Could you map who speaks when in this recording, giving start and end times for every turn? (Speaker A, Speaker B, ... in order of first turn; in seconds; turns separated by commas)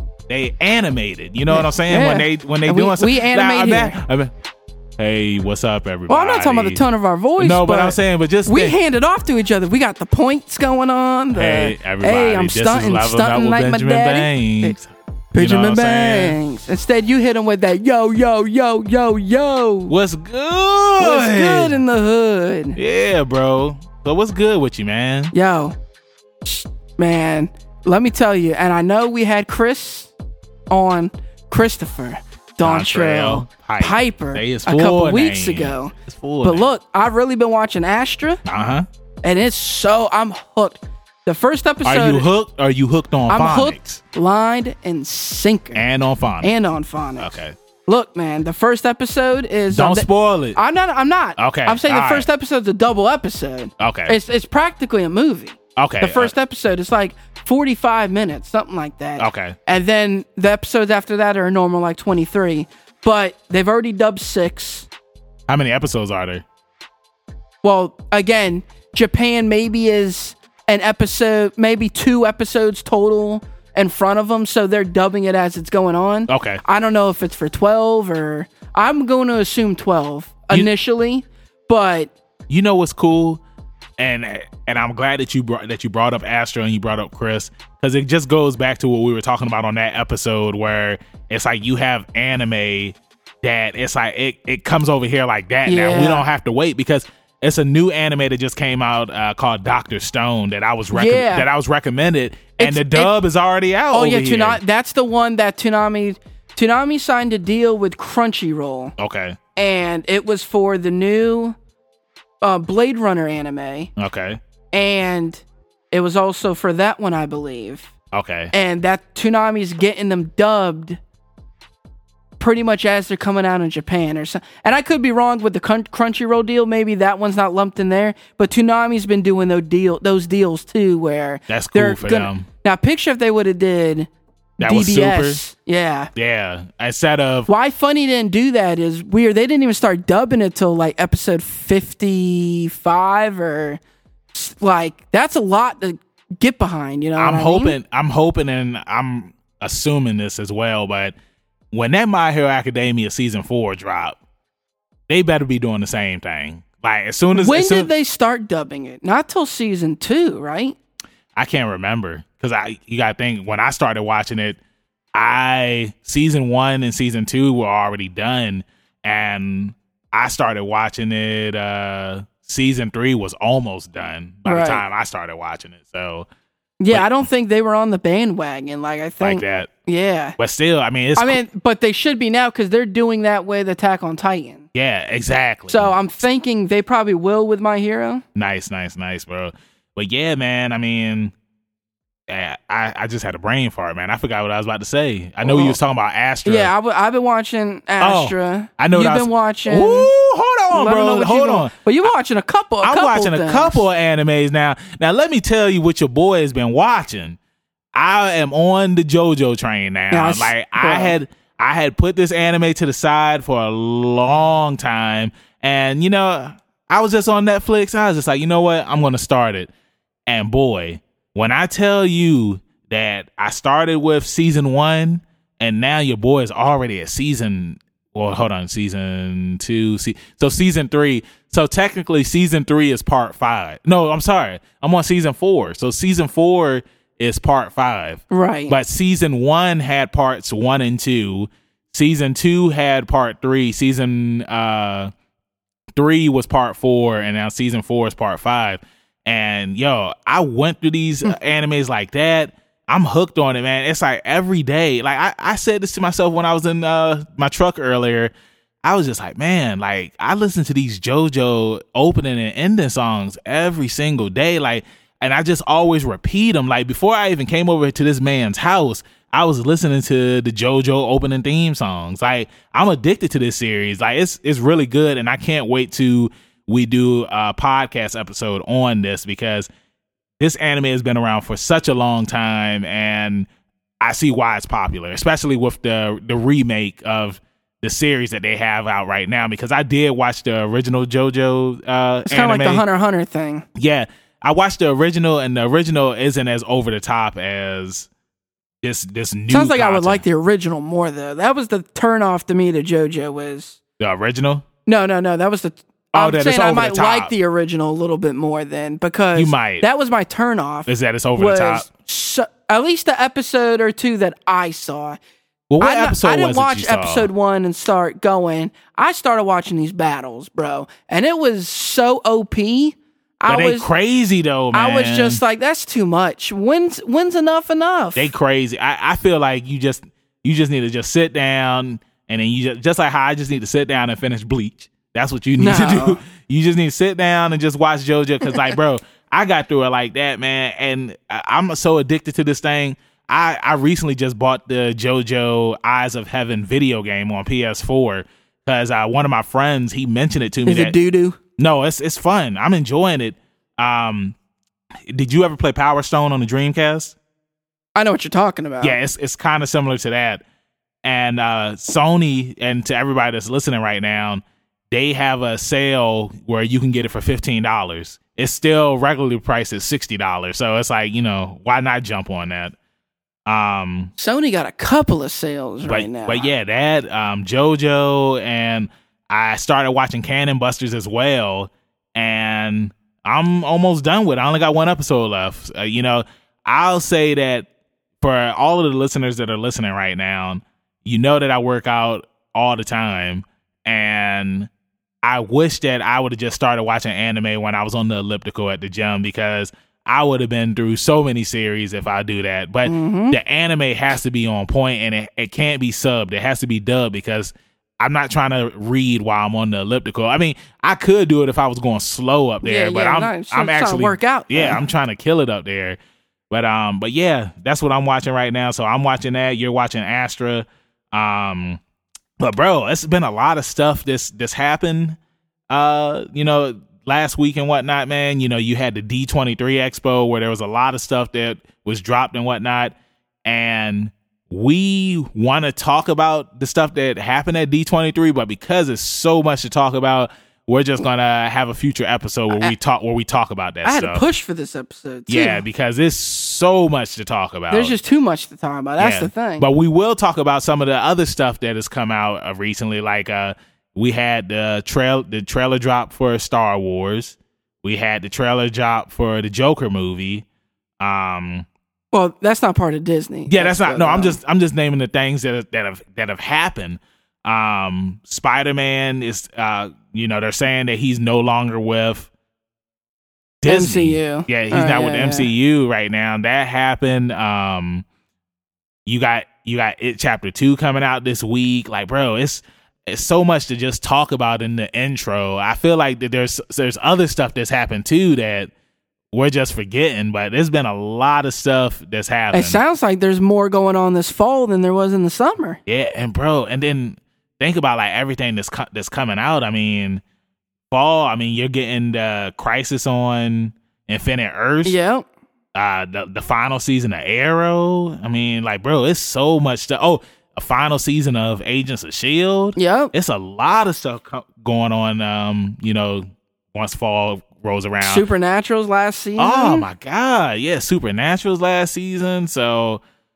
Speaker A: 0.3-4.3, Speaker B: 1.5-4.0, Speaker A: 5.0-6.8, Speaker B: 6.1-14.7, Speaker A: 7.4-8.7, Speaker A: 11.3-16.4, Speaker B: 15.3-19.9, Speaker A: 19.9-21.8, Speaker B: 21.0-22.8, Speaker A: 22.8-25.3, Speaker B: 25.3-25.7, Speaker B: 26.4-30.1, Speaker B: 30.7-38.4, Speaker A: 32.6-36.7, Speaker A: 38.4-38.9, Speaker B: 39.2-42.3, Speaker A: 41.8-44.0, Speaker B: 43.3-45.8, Speaker A: 45.7-46.5, Speaker B: 46.4-47.3, Speaker A: 47.2-47.5, Speaker B: 47.9-64.9, Speaker A: 49.7-50.6, Speaker A: 51.4-52.3, Speaker A: 53.8-54.1, Speaker A: 55.8-56.3, Speaker A: 59.2-59.5, Speaker A: 65.5-66.4, Speaker B: 67.6-82.1, Speaker A: 76.3-76.6, Speaker A: 82.5-83.4, Speaker A: 84.0-104.6, Speaker B: 95.7-96.2, Speaker B: 100.9-101.5, Speaker B: 102.6-103.1, Speaker B: 103.9-108.9, Speaker A: 109.0-109.4, Speaker B: 109.5-111.5, Speaker B: 112.4-113.9, Speaker A: 114.0-114.4, Speaker B: 114.7-117.9, Speaker A: 118.1-118.5, Speaker B: 118.5-121.0, Speaker B: 122.4-136.1, Speaker A: 131.5-132.4, Speaker A: 134.6-135.4, Speaker A: 136.1-137.5, Speaker B: 137.5-143.8, Speaker B: 144.3-147.8, Speaker A: 147.2-151.1, Speaker A: 151.7-154.2, Speaker A: 155.1-157.9, Speaker B: 157.3-160.8, Speaker A: 161.3-164.6, Speaker A: 165.1-176.2, Speaker B: 174.4-174.8, Speaker B: 176.8-180.4, Speaker A: 176.9-177.2, Speaker A: 179.2-179.7, Speaker A: 180.4-181.4, Speaker B: 181.2-184.6, Speaker A: 184.7-185.9, Speaker B: 185.7-188.2, Speaker A: 188.3-191.3, Speaker A: 192.3-196.7, Speaker B: 195.4-195.8, Speaker B: 196.4-200.1, Speaker A: 198.0-202.1, Speaker B: 200.7-203.8, Speaker A: 202.8-207.4, Speaker A: 207.9-219.7, Speaker B: 210.1-211.1, Speaker A: 220.3-245.1, Speaker B: 238.3-238.7, Speaker A: 245.9-258.3, Speaker A: 258.8-279.7, Speaker A: 280.4-283.5, Speaker A: 284.0-292.8, Speaker B: 292.3-293.6, Speaker A: 293.8-298.1, Speaker A: 298.8-300.2, Speaker B: 299.5-303.8, Speaker A: 304.0-304.6, Speaker B: 304.9-315.2, Speaker A: 306.1-307.3, Speaker A: 309.3-309.8, Speaker A: 310.9-311.8, Speaker A: 315.7-317.3, Speaker B: 315.8-323.9, Speaker A: 323.5-325.4, Speaker B: 324.7-328.3, Speaker A: 328.1-350.9, Speaker B: 335.6-336.2, Speaker B: 350.6-351.4, Speaker A: 351.6-354.3, Speaker A: 355.1-357.1, Speaker B: 357.9-359.0, Speaker A: 358.8-360.4, Speaker A: 361.0-372.7, Speaker A: 373.5-374.1, Speaker B: 374.2-376.5, Speaker A: 375.9-387.7, Speaker A: 388.2-394.7, Speaker A: 395.2-416.0, Speaker B: 402.8-403.4, Speaker B: 412.6-414.8, Speaker A: 416.5-421.8, Speaker A: 422.4-425.2, Speaker A: 425.7-444.2, Speaker B: 443.8-445.6, Speaker A: 445.3-447.9, Speaker B: 447.7-449.6, Speaker A: 449.0-460.4, Speaker A: 461.0-461.6, Speaker B: 462.1-464.4, Speaker A: 463.5-472.3, Speaker A: 473.6-478.0, Speaker B: 473.6-475.5, Speaker A: 479.1-488.7, Speaker A: 489.3-492.8, Speaker B: 492.5-495.8, Speaker A: 495.9-500.2, Speaker A: 500.9-504.9, Speaker B: 504.8-505.2, Speaker A: 505.7-518.2, Speaker B: 512.8-513.1, Speaker B: 518.0-519.8, Speaker A: 519.4-523.0